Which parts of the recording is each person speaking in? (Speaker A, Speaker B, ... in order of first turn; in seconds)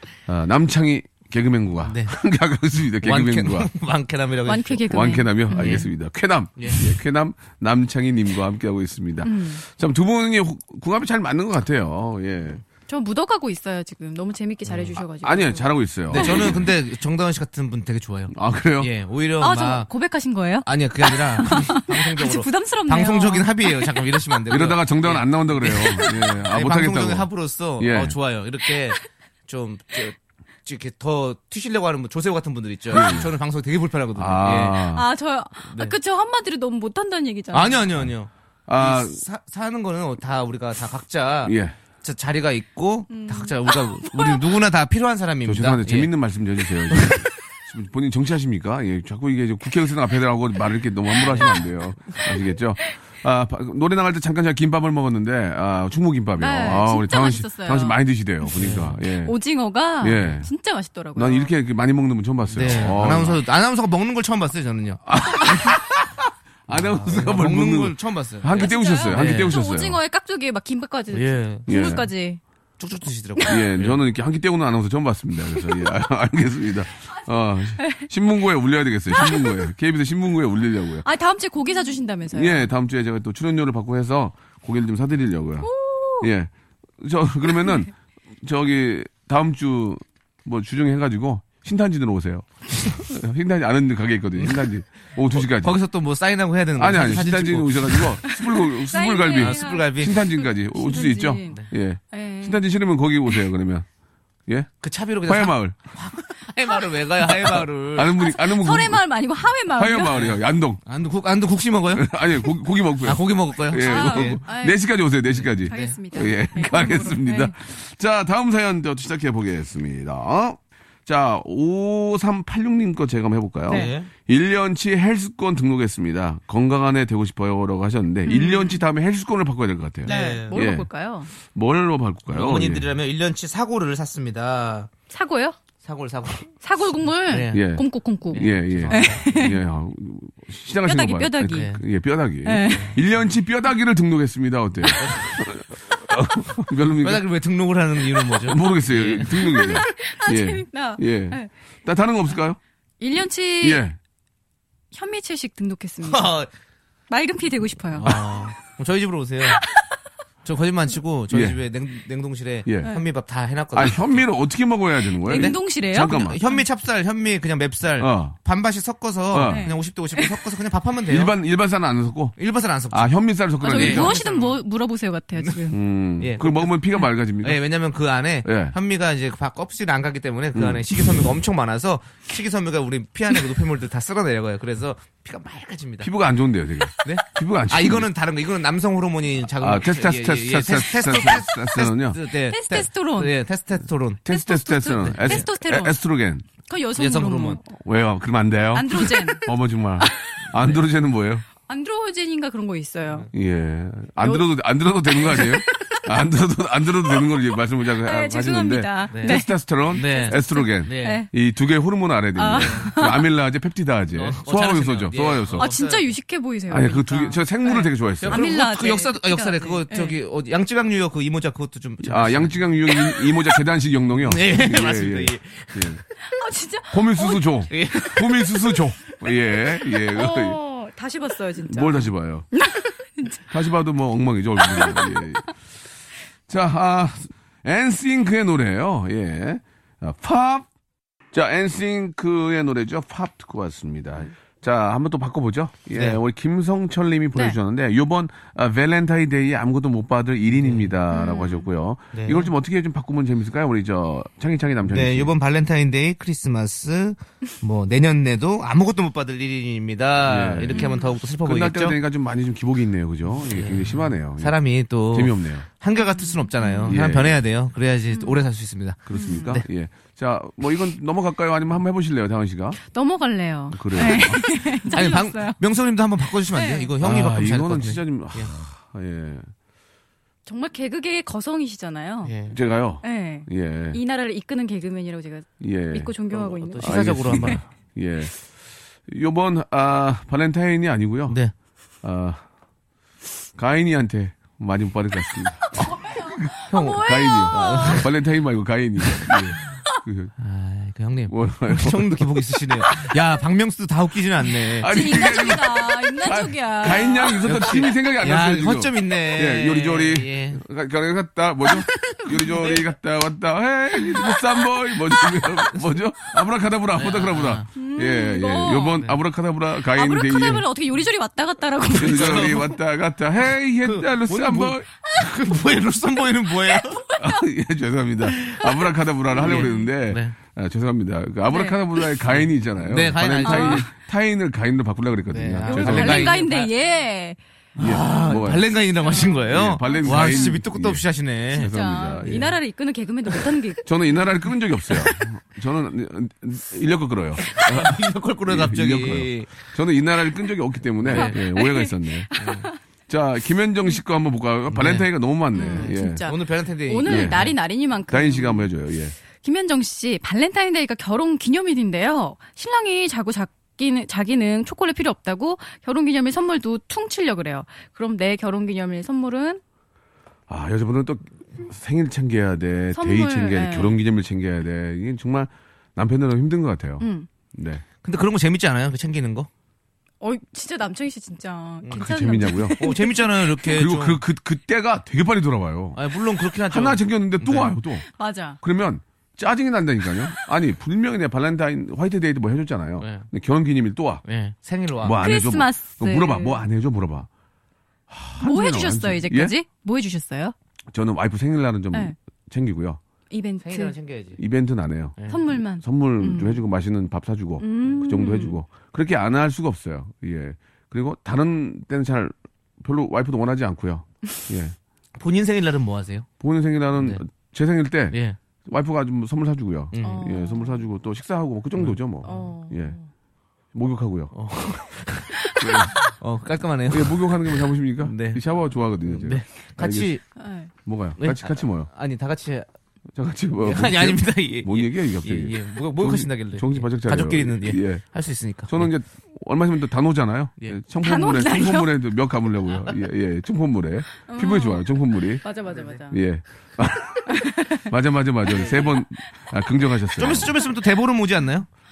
Speaker A: 0.3-3.7, 4.9-12.6, 15.2-16.7, 18.3-18.9, 24.5-28.1, 32.9-33.3, 34.2-35.1, 38.7-39.2, 41.5-41.8, 45.5-59.4, 60.0-60.5, 61.1-63.4, 65.1-70.0, 71.7-72.1, 73.5-81.1, 82.3-87.9, 88.4-95.7, 96.8-103.9, 105.3-105.8, 107.3-109.0, 109.7-110.8, 112.0-130.9, 131.4-132.9, 137.5-147.2, 148.2-152.6, 153.6-154.0, 161.3-161.6, 162.7-162.9, 163.7-166.4, 168.0-168.4, 169.3-169.7, 171.1-172.4, 172.9-174.2, 175.7-177.6, 178.4-178.8, 180.5-180.8, 186.0-188.1, 189.6-192.2, 194.3-196.4, 197.8-201.5, 203.3-215.7, 216.7-218.5, 222.0-226.0, 226.9-230.6, 231.7-232.5, 233.5-235.5, 236.5-240.7, 241.3-255.3, 260.3-264.6, 265.1-265.7, 266.9-267.4, 269.1-272.8, 273.7-274.4, 277.0-279.5, 282.5-284.0, 285.6-286.2, 286.8-288.4, 289.1-291.4, 292.0-292.4, 293.6-300.3, 301.3-302.4, 304.8-320.7, 322.0-324.9, 327.2-336.4, 337.8-338.7, 339.5-342.6, 343.9-352.3, 353.1-356.3, 357.1-357.5, 358.1-359.1, 370.5-377.8, 381.9-382.8, 383.6-386.0, 386.7-388.1, 388.6-394.2, 395.0-397.3, 398.1-399.5, 400.9-403.0, 404.4-405.2, 405.8-414.8, 416.4-423.0, 423.7-424.3, 425.6-425.9, 426.9-430.1, 430.9-431.9, 433.1-438.0, 438.7-445.5, 446.1-450.5
Speaker B: 1.8-2.1, 3.0-5.9, 6.6-6.9, 14.7-15.0, 16.1-19.9, 20.6-34.9, 35.6-35.9, 37.5-46.1, 46.9-47.2, 51.3-51.5, 58.6-59.0, 62.5-65.5, 66.7-69.5, 71.1-71.7, 72.8-74.0, 95.3-98.2, 99.3-100.2, 104.8-108.2, 110.1-112.1, 113.0-114.4, 115.3-116.0, 123.7-124.1, 130.1-130.6, 132.3-134.9, 135.8-136.5, 137.3-137.6, 138.3-139.2, 141.5-141.8, 144.9-145.4, 147.0-149.6, 156.0-156.5, 158.0-159.6, 160.4-164.2, 165.3-171.3, 172.4-173.2, 173.7-174.6, 175.4-175.6, 176.2-186.1, 187.0-194.2, 195.0-195.4, 197.0-197.6, 209.1-211.2, 212.6-213.0, 214.1-216.2, 218.2-222.7, 224.1-226.0, 227.7-228.4, 250.5-250.9, 252.1-252.5, 254.9-262.0, 263.5-269.7, 274.9-278.5, 282.2-282.6, 286.6-287.6, 291.3-291.5, 296.7-298.1, 299.1-299.6, 300.4-304.9, 307.4-310.6, 312.4-312.9, 316.9-317.7, 321.9-322.8, 323.8-327.1, 328.3-328.7, 329.3-330.4, 332.3-333.9, 335.3-336.7, 337.8-341.7, 342.2-342.5, 347.4-349.6, 351.0-351.4, 352.4-352.7, 354.7-355.1, 355.7-357.6, 378.0-379.5, 382.8-384.2, 386.0-387.8, 393.0-393.3, 394.2-395.2, 403.6-404.4, 415.2-416.3, 417.0-417.2, 418.1-418.4, 419.9-420.3, 421.8-422.5, 424.3-428.4, 429.0-430.2, 431.2-432.7, 433.6-438.9, 445.7-446.0, 450.2-451.7
Speaker C: 4.5-5.9, 9.2-9.6, 12.9-16.6, 19.4-23.9, 25.6-26.3, 34.8-37.9, 43.1-44.5, 56.4-58.0, 59.0-61.5, 68.6-72.4, 75.6-75.9, 77.8-78.1, 79.1-79.7, 81.0-82.7, 85.6-86.3, 98.2-102.6, 108.2-110.3, 113.8-114.8, 115.7-117.5, 128.2-128.8, 130.1-131.3, 135.1-135.6, 136.6-139.6, 140.8-141.7, 142.4-143.0, 149.3-151.5, 153.0-153.8, 154.9-156.3, 157.1-158.5, 159.5-159.9, 165.2-166.6, 169.5-170.4, 173.6-175.8, 192.3-193.3, 194.3-196.0, 196.7-197.6, 198.7-200.4, 201.7-203.3, 204.2-204.4, 205.2-206.1, 208.0-211.3, 212.4-213.2, 215.6-220.2, 226.3-227.7, 229.9-233.4, 234.6-235.3, 251.1-251.7, 260.7-261.1, 266.5-267.0, 268.1-268.4, 269.1-269.5, 272.9-275.6, 276.5-276.9, 280.5-282.4, 283.0-287.6, 295.8-298.1, 304.7-307.6, 314.1-314.4, 317.7-319.0, 319.9-322.6, 326.5-327.4, 329.5-329.9, 331.5-331.8, 333.4-333.9, 335.7-337.4, 338.1-340.6, 341.6-343.9, 351.1-352.8, 355.5-358.7, 359.4-369.6, 372.9-374.0, 377.0-377.3, 380.2-383.2, 388.1-388.6, 395.2-396.6, 398.4-400.5, 403.3-404.0, 405.3-406.6, 407.6-408.6, 420.0-420.9, 422.2-423.1, 430.4-430.7, 441.0-442.0, 444.3-444.9, 445.4-446.2, 447.3-447.9, 448.6-449.0